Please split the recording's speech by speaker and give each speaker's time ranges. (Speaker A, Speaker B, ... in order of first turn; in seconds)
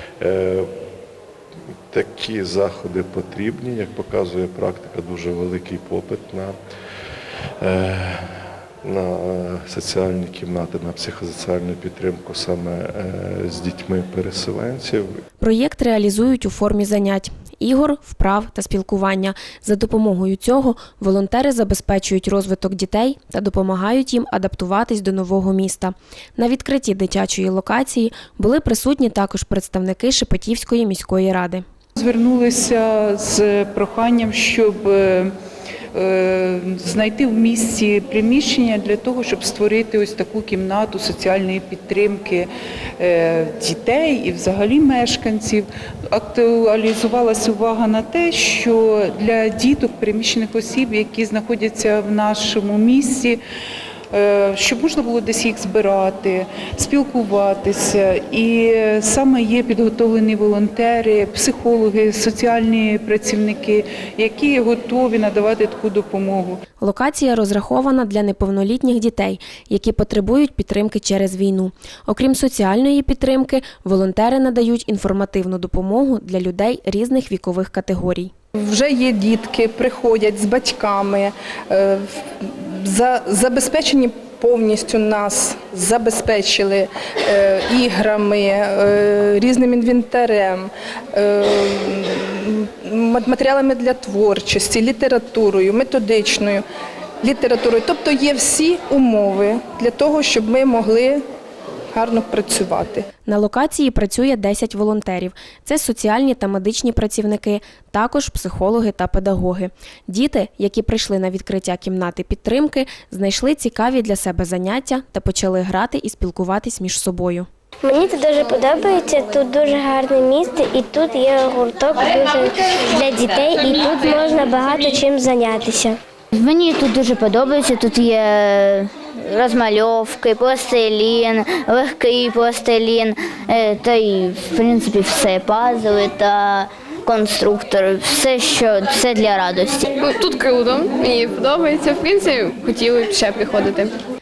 Speaker A: 0.2-0.7, 1.9-6.5, 7.6-8.2, 8.8-15.0
Speaker B: 15.4-31.6, 66.8-78.3, 103.2-117.5
Speaker C: 32.0-35.3, 35.9-42.5, 43.0-53.4, 54.1-66.6
Speaker D: 78.6-96.6, 97.2-101.2, 101.9-103.0
Speaker E: 117.8-126.0
Speaker F: 126.3-139.9
Speaker G: 140.0-144.0